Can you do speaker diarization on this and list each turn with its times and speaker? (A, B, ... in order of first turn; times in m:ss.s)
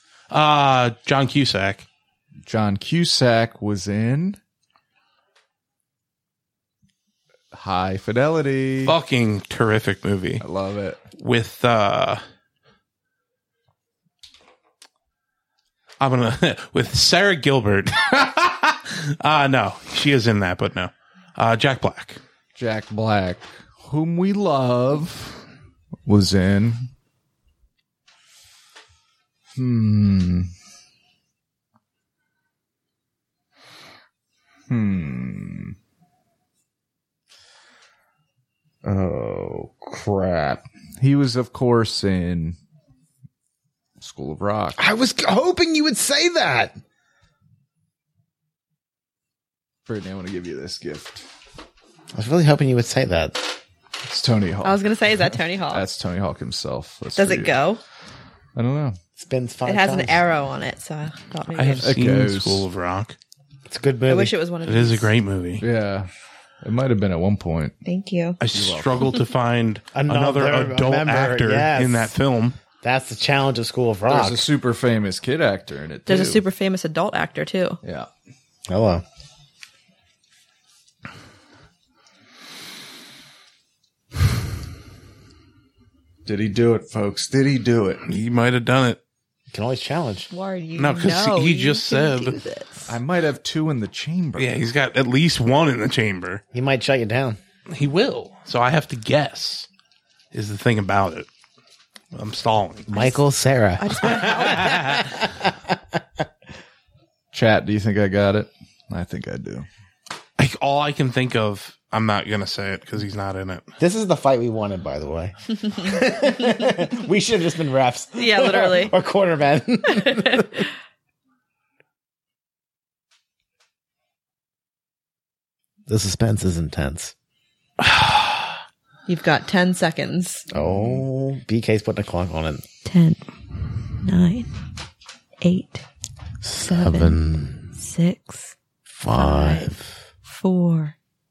0:00.3-0:01.8 A
0:02.4-0:04.4 B
0:07.5-0:09.0 B
0:08.8-0:10.4 A
0:10.4-0:11.0 B
0:11.2-0:12.2 A
0:16.0-0:22.2 A
0:22.6-0:25.4 B
0:26.0-0:26.9 B
0:29.5-0:30.5 B
0:34.7-0:35.7 B
0:38.8-0:40.6 C
0:41.0-0:42.6 B
0:44.0-0:44.8 B
0:44.8-0:46.7 C
0:49.8-0:51.2 B
0:52.1-0:53.4 C
0:54.1-0:57.6 B
0:54.6-0:55.8 D
0:57.2-0:57.8 D
0:58.6-0:59.0 B
0:59.2-1:00.2 C
0:59.6-1:01.9 D
1:01.5-1:03.2 A
1:01.8-1:02.6 B
1:03.7-1:04.4 C
1:04.1-1:05.1 D
1:04.6-1:05.6 A
1:05.6-1:06.1 B
1:06.6-1:07.7 B
1:07.8-1:08.4 D
1:08.4-1:12.6 A
1:08.5-1:08.9 B
1:09.9-1:12.1 C
1:12.8-1:14.4 C
1:14.1-1:16.4 B
1:16.1-1:17.8 D
1:17.8-1:18.1 B
1:18.7-1:19.0 C
1:26.2-1:28.0 B
1:28.0-1:29.0 A
1:29.5-1:30.3 C
1:30.3-1:33.0 D
1:30.8-1:32.4 A
1:32.9-1:34.5 B
1:34.4-1:36.4 A
1:36.5-1:37.4 C
1:37.7-1:39.7 A
1:40.3-1:41.3 A
1:42.1-1:42.9 A
1:42.9-1:45.8 C
1:42.9-1:43.2 D
1:43.8-1:45.1 D
1:44.0-1:45.1 A
1:47.3-1:49.7 B
1:50.4-1:53.7 A
1:53.8-2:00.6 C
1:58.2-1:58.9 D
2:00.0-2:00.4 D
2:05.9-2:07.1 C
2:07.8-2:08.2 A
2:09.1-2:10.4 D
2:10.5-2:12.6 C
2:10.6-2:11.0 B
2:12.8-2:13.2 D
2:13.9-2:14.5 D
2:15.4-2:15.8 D
2:16.4-2:17.7 C
2:16.6-2:17.2 D
2:17.7-2:18.5 D
2:18.9-2:19.9 C
2:19.1-2:19.7 D
2:20.2-2:20.9 D